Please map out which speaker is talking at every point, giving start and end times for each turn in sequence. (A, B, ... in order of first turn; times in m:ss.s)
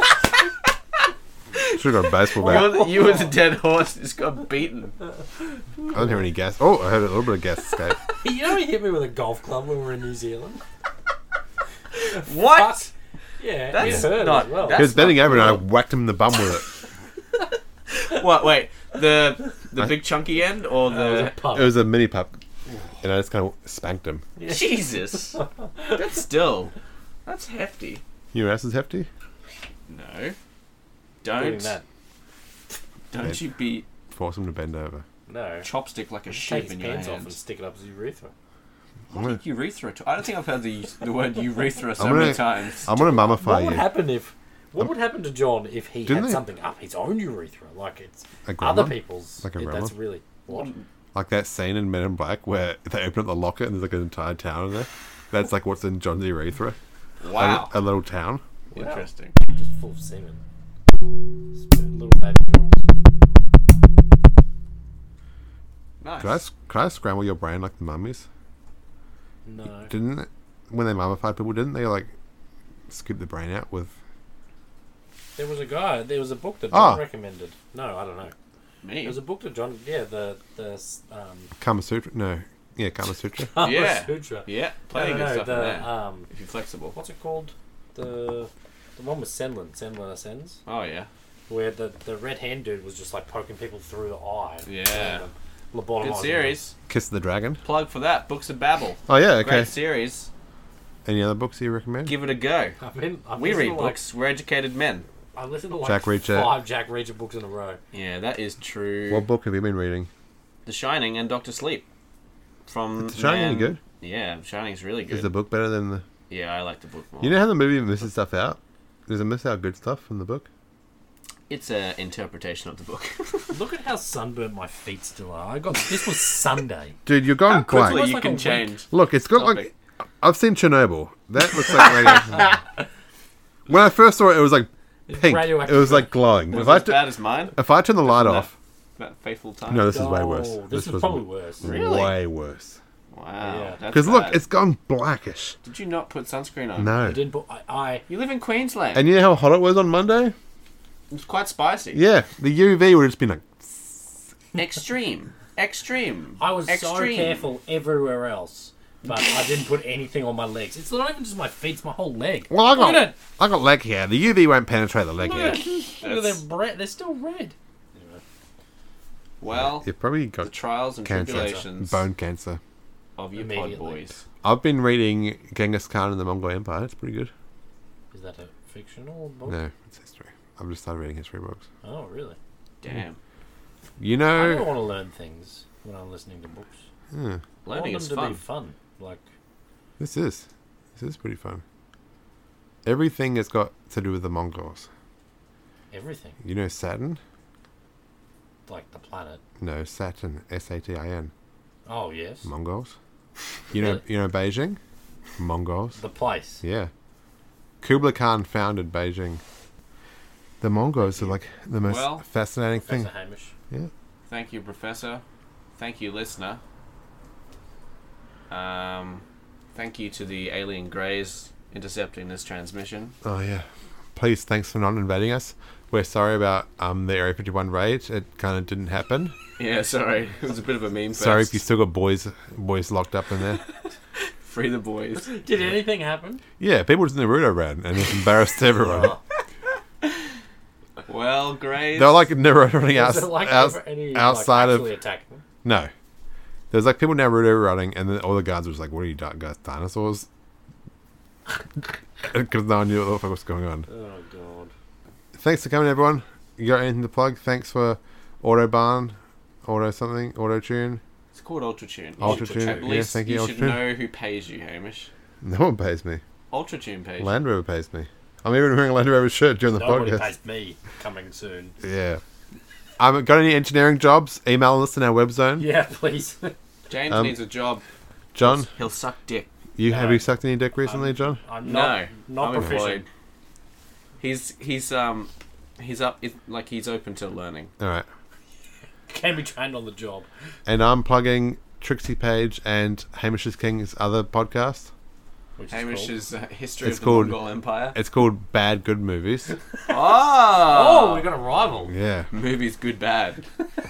0:01.7-0:02.8 A
0:02.3-0:05.0 B
0:02.4-0:03.4 C
0:05.9-0:08.0 A
0:08.2-0:10.6 C
0:12.0-0:12.8 B
0:12.2-0:15.0 C
0:13.7-0:15.6 B
0:13.8-0:14.1 A
0:14.7-0:16.6 A
0:18.0-0:21.3 B
0:20.9-0:21.8 C
0:21.5-0:22.3 A
0:23.0-0:24.2 A
0:24.4-0:24.6 C
0:24.4-0:26.7 B
0:27.2-0:28.0 B
0:28.3-0:29.1 A
0:29.9-0:30.4 B
0:31.2-0:31.8 B
0:31.3-0:31.8 C
0:33.1-0:33.8 B
0:34.1-0:35.0 A
0:35.3-0:35.7 C
0:35.6-0:37.4 B
0:36.3-0:38.3 C
0:39.1-0:42.9 B
0:42.0-0:43.8 A
0:42.9-0:50.7 C
0:46.1-0:46.4 A
0:48.4-0:49.9 A
0:50.5-0:50.8 B
0:51.1-0:56.8 A
0:57.2-0:57.7 B
0:57.3-0:58.4 A
0:58.7-1:00.4 C
0:58.7-0:59.3 B
1:01.5-1:02.8 C
1:06.0-1:06.4 B
1:06.2-1:08.2 A
1:09.4-1:09.9 C
1:09.9-1:12.1 A
1:12.9-1:13.9 A
1:15.4-1:18.3 C
1:16.7-1:17.0 A
1:18.8-1:19.2 B
1:19.0-1:21.5 C
1:21.6-1:23.5 A
1:23.5-1:26.3 C
1:23.6-1:27.0 B
1:26.9-1:30.6 C
1:30.6-1:31.1 B
1:31.5-1:36.6 C
1:34.6-1:35.2 B
1:36.0-1:36.7 B
1:36.9-1:37.6 A
1:37.6-1:40.3 B
1:39.1-1:39.7 A
1:41.0-1:42.1 A
1:42.0-1:42.8 B
1:42.8-1:44.0 C
1:43.4-1:45.0 B
1:45.3-1:47.8 C
1:45.8-1:46.6 A
1:47.9-1:49.2 B
1:49.1-1:50.1 A
1:50.6-1:51.8 B
1:52.7-1:55.3 B
1:53.0-1:53.8 A
1:55.1-1:56.0 A
1:56.3-1:57.4 B
1:57.2-2:00.5 A
2:01.5-2:03.6 B
2:03.5-2:07.0 C
2:07.0-2:08.0 A
2:07.5-2:09.7 B
2:07.7-2:08.7 C
2:08.9-2:12.5 A
2:11.8-2:12.6 B
2:13.7-2:18.5 A
2:15.1-2:16.2 C
2:16.5-2:19.9 B
2:19.7-2:22.8 A
2:19.8-2:21.7 C
2:21.6-2:22.2 B
2:23.1-2:24.4 B
2:23.4-2:23.8 C
2:23.9-2:25.6 A
2:25.6-2:26.9 B
2:26.8-2:27.2 A
2:27.0-2:28.0 C
2:28.1-2:29.0 B
2:28.9-2:30.3 A
2:31.1-2:32.0 B
2:31.9-2:34.2 A
2:34.5-2:37.4 B
2:36.4-2:43.1 C
2:42.5-2:45.6 A
2:45.2-2:48.2 C
2:46.0-2:46.4 B
2:49.4-2:49.9 B
2:49.5-2:50.5 A
2:50.4-2:52.0 B
2:51.0-2:52.6 A
2:51.3-2:51.6 C
2:53.2-2:54.2 B
2:53.4-2:54.1 C
2:54.4-2:57.3 A
2:58.1-2:59.6 C
2:59.5-3:01.6 A
3:01.8-3:02.4 C
3:02.8-3:03.2 B
3:04.0-3:04.7 A
3:04.3-3:06.8 C
3:07.1-3:07.4 A
3:07.6-3:08.4 B
3:07.7-3:09.2 C
3:10.0-3:10.4 A
3:11.0-3:11.6 A
3:12.8-3:14.9 A
3:15.9-3:16.4 C
3:16.4-3:17.2 A
3:18.7-3:19.4 C
3:19.6-3:21.3 A
3:21.8-3:22.5 C
3:22.4-3:22.9 A
3:23.7-3:24.8 A
3:23.7-3:24.0 C
3:25.4-3:26.0 A
3:26.0-3:26.6 C
3:26.6-3:26.9 A
3:27.8-3:29.4 A
3:30.6-3:33.1 A
3:31.8-3:32.2 B
3:32.8-3:33.5 C
3:34.3-3:35.2 B
3:35.8-3:36.6 B
3:38.5-3:39.2 B
3:39.7-3:43.1 B
3:43.2-3:49.4 A
3:49.6-3:51.6 B
3:51.1-3:53.6 A
3:54.2-3:55.3 B
3:55.2-3:56.4 C
3:56.6-3:59.2 A
3:58.8-3:59.2 C
4:01.1-4:02.2 B
4:01.9-4:04.9 A
4:02.9-4:05.4 C
4:05.6-4:05.9 A
4:06.7-4:10.3 A
4:11.8-4:13.8 A
4:13.9-4:14.7 C
4:15.3-4:21.0 A
4:21.3-4:25.1 B
4:22.2-4:23.0 C
4:22.2-4:23.8 A
4:25.4-4:26.2 A
4:26.5-4:27.4 B
4:27.2-4:30.3 A
4:29.7-4:31.7 C
4:31.8-4:32.2 A
4:33.0-4:35.7 A
4:35.6-4:36.5 C
4:36.9-4:37.8 B
4:37.1-4:37.3 A
4:38.3-4:38.7 A
4:38.4-4:39.5 B
4:39.8-4:41.4 A
4:39.8-4:40.2 C
4:40.8-4:43.0 C
4:41.6-4:43.0 B
4:44.2-4:47.7 B
4:47.8-4:48.1 A
4:49.1-4:50.3 C
4:50.6-4:54.9 A
4:55.6-4:56.2 C
4:55.7-4:58.0 B
4:56.8-4:57.4 A
4:57.9-4:59.5 A
4:59.9-5:01.3 B
5:00.7-5:01.9 C
5:01.9-5:02.3 A
5:02.3-5:03.4 B